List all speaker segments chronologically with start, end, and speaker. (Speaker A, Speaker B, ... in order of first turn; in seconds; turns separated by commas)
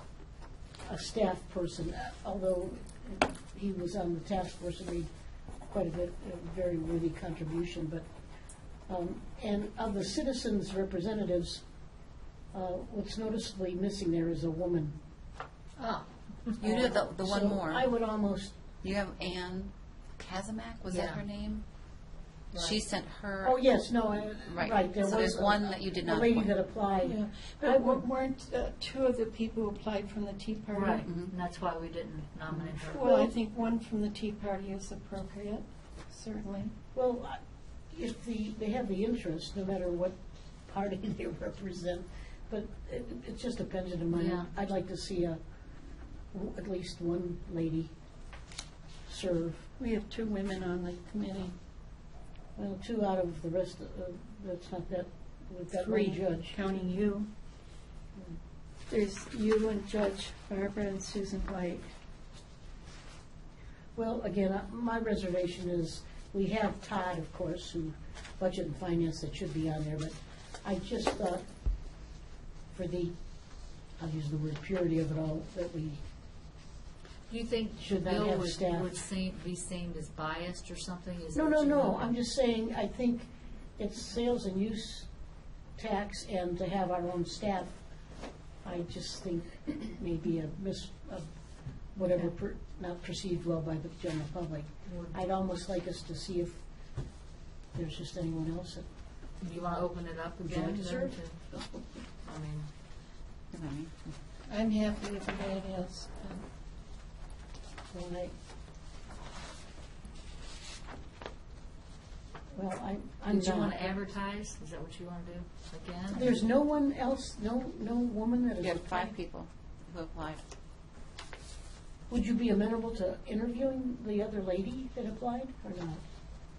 Speaker A: 0.9-5.1, Speaker A: 5.7-8.1, Speaker A: 8.9-11.6, Speaker A: 12.5-15.0, Speaker B: 15.8-16.7, Speaker A: 16.6-18.6, Speaker C: 16.6-17.9, Speaker C: 18.8-21.6, Speaker B: 20.9-21.2, Speaker B: 22.5-22.8, Speaker C: 22.5-23.6, Speaker A: 23.4-28.1, Speaker C: 24.5-26.6, Speaker D: 27.0-31.1, Speaker B: 30.7-33.1, Speaker C: 31.0-31.3, Speaker D: 32.9-36.7, Speaker A: 32.9-33.3, Speaker A: 36.9-37.4, Speaker A: 37.9-40.2, Speaker A: 40.7-45.4, Speaker B: 44.1-44.5, Speaker A: 46.3-47.9, Speaker A: 49.1-49.7, Speaker D: 49.8-51.5, Speaker A: 52.6-56.6, Speaker D: 55.8-57.3, Speaker D: 58.9-61.9, Speaker A: 63.9-71.4, Speaker A: 72.7-73.1, Speaker A: 74.0-76.0, Speaker B: 77.3-82.2, Speaker A: 77.8-78.9, Speaker A: 81.3-85.1, Speaker A: 85.8-87.7, Speaker A: 88.6-91.3, Speaker A: 91.9-96.6, Speaker B: 94.8-95.2, Speaker A: 97.7-98.8, Speaker B: 99.4-101.4, Speaker A: 100.4-101.2, Speaker B: 102.2-102.7, Speaker C: 103.5-104.1, Speaker D: 104.5-106.5, Speaker A: 107.9-108.3, Speaker A: 112.5-114.0, Speaker B: 113.3-116.4, Speaker A: 116.1-119.1, Speaker C: 118.6-120.4, Speaker A: 122.1-126.0